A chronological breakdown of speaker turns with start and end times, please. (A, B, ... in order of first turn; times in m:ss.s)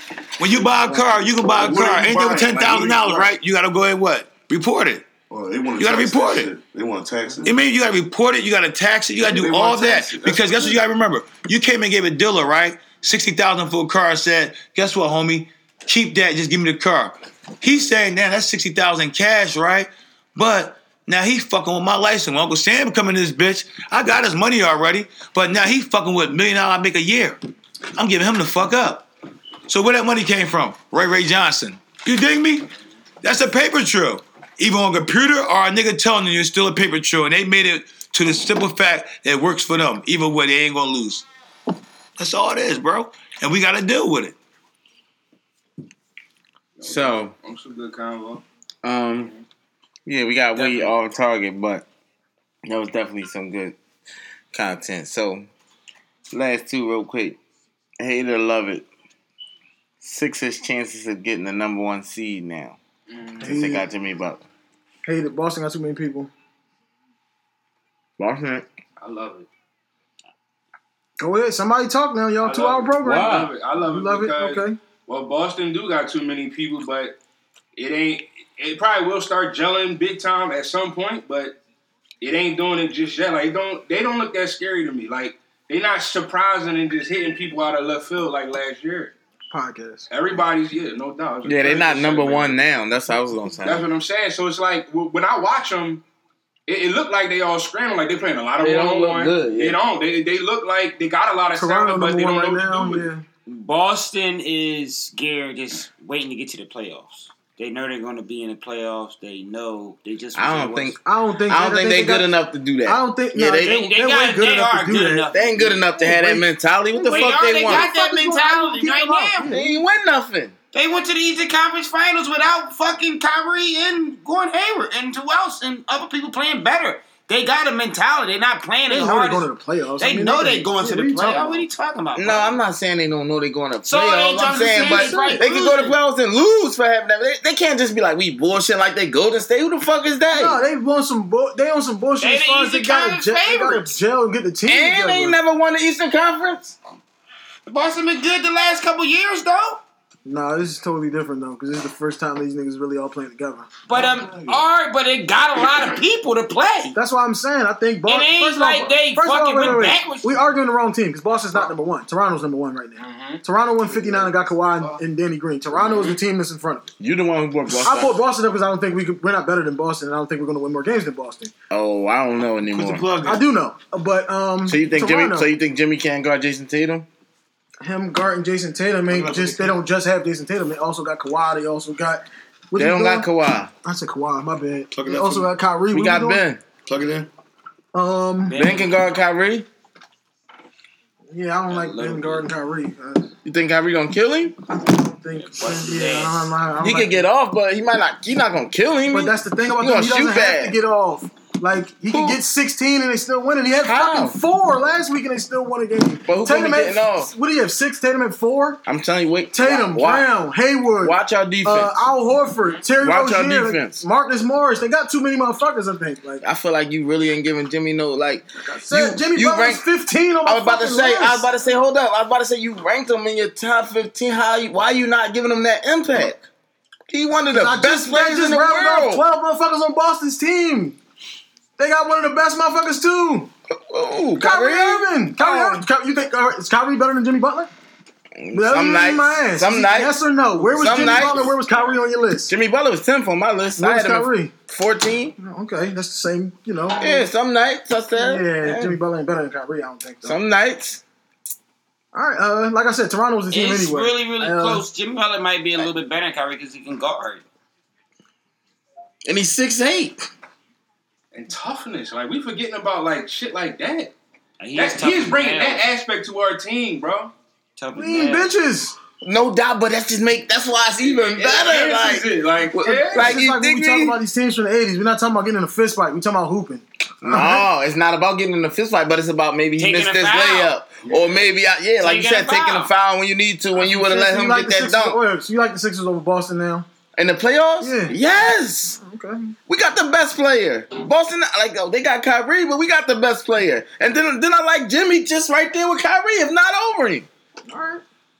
0:00.4-0:05.1 A
0:00.5-0:03.3 B
0:05.3-0:07.6 B
0:05.8-0:06.5 A
0:07.4-0:27.4 A
0:09.2-0:10.8 B
0:28.0-0:29.1 A
0:29.7-0:32.7 A
0:33.2-0:41.2 A
0:42.2-0:44.4 A
0:46.8-0:48.4 C
0:46.8-0:47.3 D
0:48.8-0:49.3 D
0:49.2-0:49.4 C
0:50.0-0:51.8 D
0:50.6-0:50.9 C
0:52.6-0:53.8 D
0:54.5-0:55.5 D
0:56.3-0:57.4 D
0:58.0-0:58.8 D
1:00.0-1:02.8 D
1:03.1-1:03.4 C
1:03.4-1:03.8 E
1:03.4-1:04.4 D
1:05.0-1:06.3 E
1:08.2-1:08.6 D
1:09.0-1:09.5 C
1:11.2-1:14.8 E
1:12.4-1:17.2 C
1:13.0-1:13.5 D
1:17.7-1:21.6 C
1:22.2-1:29.1 C
1:29.5-1:30.1 E
1:30.1-1:32.6 C
1:31.4-1:33.9 D
1:33.6-1:36.0 C
1:36.7-1:43.1 C
1:38.6-1:39.8 D
1:41.6-1:43.2 E
1:43.5-1:51.0 F
1:50.3-1:53.8 D
1:51.0-1:52.3 E
1:52.8-1:55.3 E
1:53.6-1:56.4 F
1:55.3-1:57.9 D
1:56.0-1:56.3 E
1:57.0-1:59.5 F
1:57.6-1:59.8 E
1:59.4-2:00.5 D
2:00.7-2:09.5 F
2:08.9-2:11.6 E
2:10.0-2:12.6 F
2:12.1-2:20.6 D
2:13.8-2:16.0 F
2:14.7-2:15.5 E
2:20.3-2:25.4 E
2:22.2-2:24.0 F
2:24.7-2:26.7 D
2:27.6-2:29.8 F
2:30.2-2:33.7 E
2:33.9-2:36.9 F
2:33.9-2:34.6 B
2:36.9-2:46.9 E
2:38.0-2:40.4 F
2:43.0-2:43.4 C
2:43.9-2:44.3 B
2:47.0-2:48.1 D
2:47.8-2:51.5 E
2:51.7-2:53.1 D
2:52.7-2:53.4 A
2:53.2-2:55.5 E
2:54.7-2:57.1 D
2:57.8-3:03.3 E
2:59.1-2:59.8 A
3:02.7-3:03.7 D
3:03.8-3:06.4 E
3:04.9-3:05.5 A
3:05.9-3:06.6 D
3:06.8-3:07.3 A
3:07.9-3:08.6 E
3:08.5-3:08.9 F
3:08.5-3:09.7 D
3:11.3-3:13.3 E
3:11.7-3:12.5 C
3:13.4-3:14.6 D
3:14.7-3:17.2 E
3:15.4-3:16.5 F
3:16.8-3:20.8 D
3:19.1-3:28.8 E
3:22.1-3:22.4 D
3:23.8-3:24.4 D
3:26.3-3:27.3 D
3:28.8-3:30.3 D
3:29.5-3:36.4 E
3:31.0-3:32.0 D
3:33.0-3:34.0 D
3:36.4-3:39.8 D
3:38.6-3:41.5 E
3:40.4-3:46.4 D
3:47.1-3:49.2 D
3:47.5-3:51.0 E
3:51.8-3:53.5 E
3:53.7-3:55.8 D
3:54.4-3:57.7 E
3:58.4-4:00.2 D
3:58.5-4:02.5 E
4:00.7-4:01.5 D
4:00.8-4:01.2 C
4:02.5-4:05.3 D
4:03.8-4:04.5 E
4:05.4-4:07.3 E
4:06.9-4:09.0 D
4:08.2-4:10.4 E
4:10.2-4:11.0 D
4:12.1-4:14.8 E
4:13.5-4:17.4 F
4:19.2-4:20.3 D
4:21.3-4:24.1 C
4:24.6-4:25.8 F
4:24.7-4:27.3 C
4:27.8-4:28.5 F
4:27.9-4:28.9 E
4:29.2-4:34.2 D
4:31.2-4:33.4 C
4:33.1-4:37.6 E
4:37.2-4:45.2 D
4:39.8-4:40.7 F
4:41.1-4:41.3 C
4:42.0-4:42.9 F
4:43.7-4:46.9 E
4:47.2-4:49.0 D
4:47.8-4:48.1 E
4:49.0-4:49.5 E
4:49.7-4:57.3 D
4:57.7-4:58.0 E